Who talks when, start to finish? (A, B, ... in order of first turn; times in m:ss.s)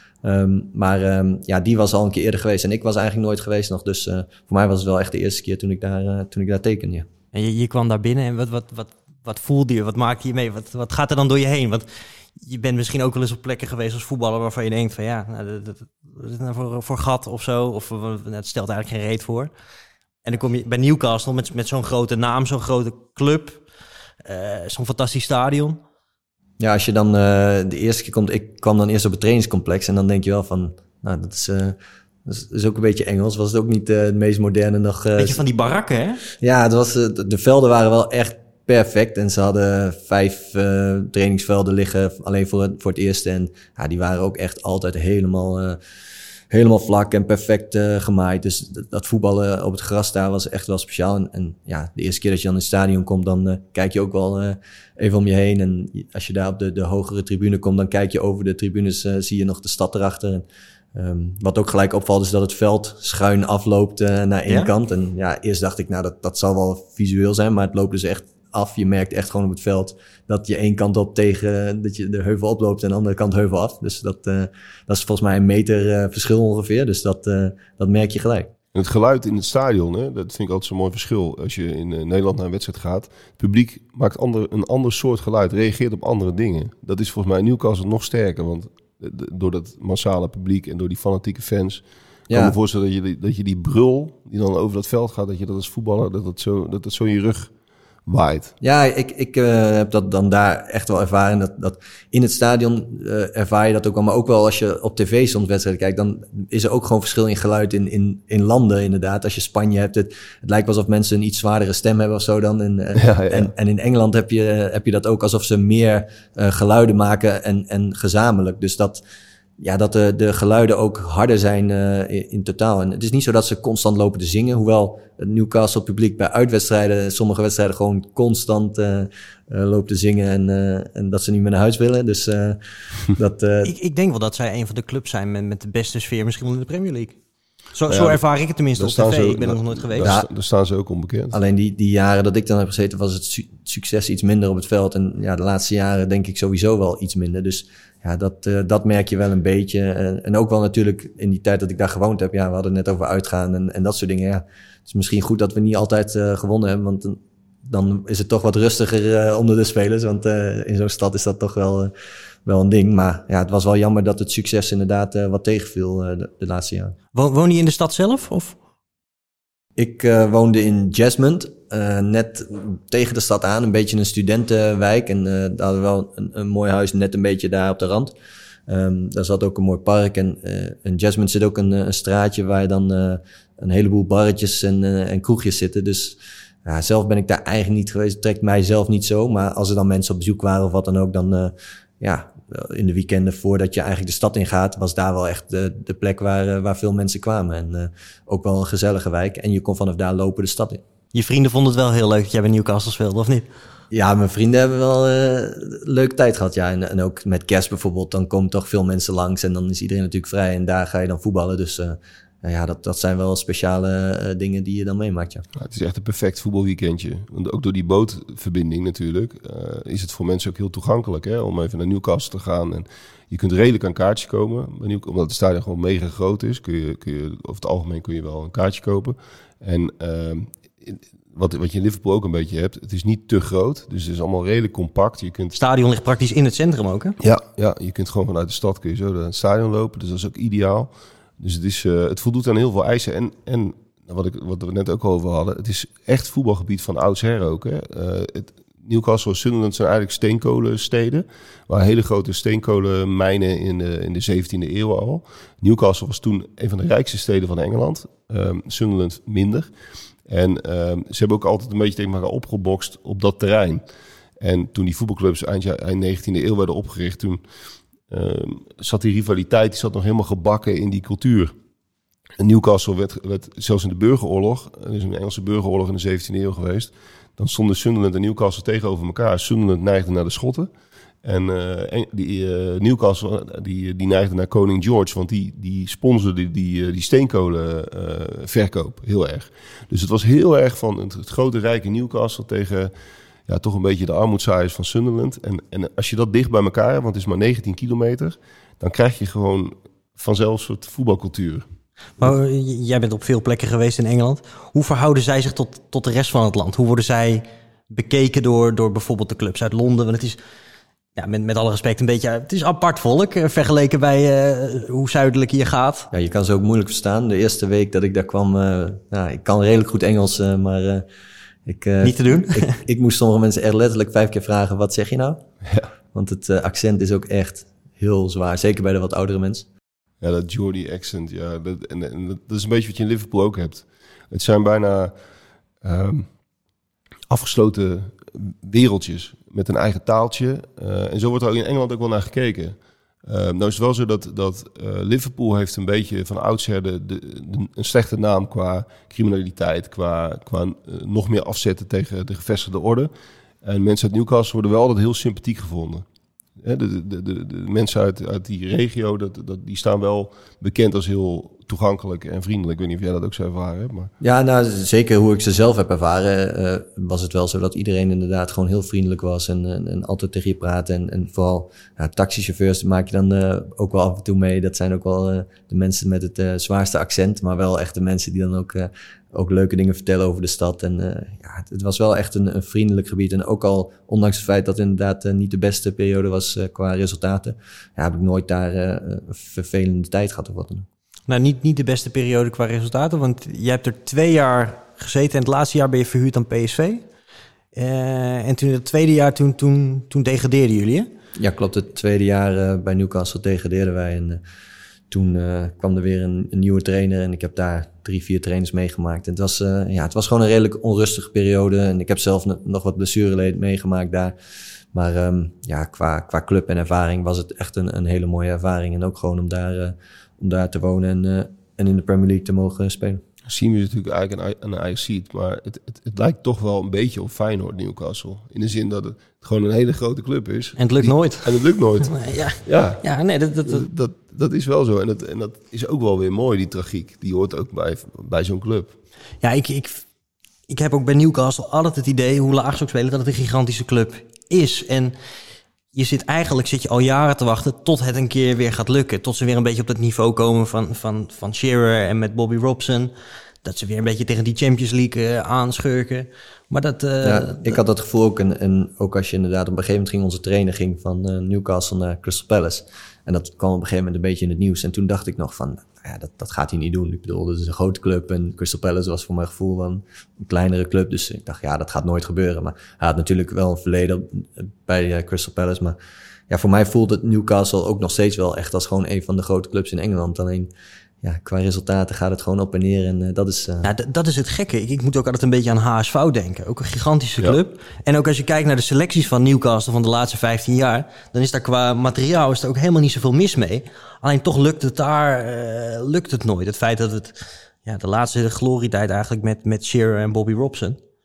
0:00.2-0:07.1 A
0:07.3-0:19.5 B
0:20.2-0:23.6 B
0:24.2-0:25.8 B
0:26.6-0:35.4 A
0:35.2-0:36.2 B
0:36.4-0:45.8 A
0:46.5-1:18.5 A
1:18.7-1:37.5 C
1:32.3-1:32.6 A
1:38.1-1:38.5 C
1:38.6-1:59.0 A
1:52.9-1:53.5 C
1:59.6-2:13.7 A
2:13.6-2:17.2 B
2:17.7-2:20.1 B
2:17.9-2:18.2 C
2:18.8-2:21.4 C
2:20.0-2:20.3 A
2:21.3-2:41.9 A
2:42.5-2:46.9 A
2:47.1-2:48.6 B
2:49.8-2:58.1 A
2:58.7-3:20.8 A
3:21.1-3:23.5 B
3:23.9-3:35.4 A
3:35.5-3:55.6 C
3:55.5-3:57.2 B
3:57.2-4:19.7 C
4:20.3-4:23.8 C
4:24.4-4:27.4 C
4:28.1-4:31.5 C
4:32.4-4:40.7 C
4:41.2-4:52.9 C
4:53.5-5:01.6 C
5:02.2-5:10.4 B
5:11.2-5:16.1 B
5:16.1-5:21.0 A
5:21.6-5:25.4 A
5:22.0-5:22.7 B
5:26.1-5:29.6 A
5:30.2-5:35.1 C
5:35.8-5:36.3 C
5:37.3-5:53.1 C
5:53.6-5:56.0 C
5:56.6-6:04.1 C
6:04.2-6:30.9 A
6:31.3-6:37.0 B
6:37.8-6:41.1 B
6:41.4-6:44.4 A
6:45.1-6:54.3 A
6:54.9-7:03.2 A
7:03.4-7:13.0 C
7:10.8-7:13.8 B
7:13.6-7:19.0 C
7:19.4-7:20.0 B
7:20.7-7:25.1 B
7:25.9-7:33.1 B
7:33.6-7:37.8 B
7:37.2-7:56.0 A
7:56.5-8:00.7 A
8:01.2-8:03.9 A
8:03.8-8:21.0 B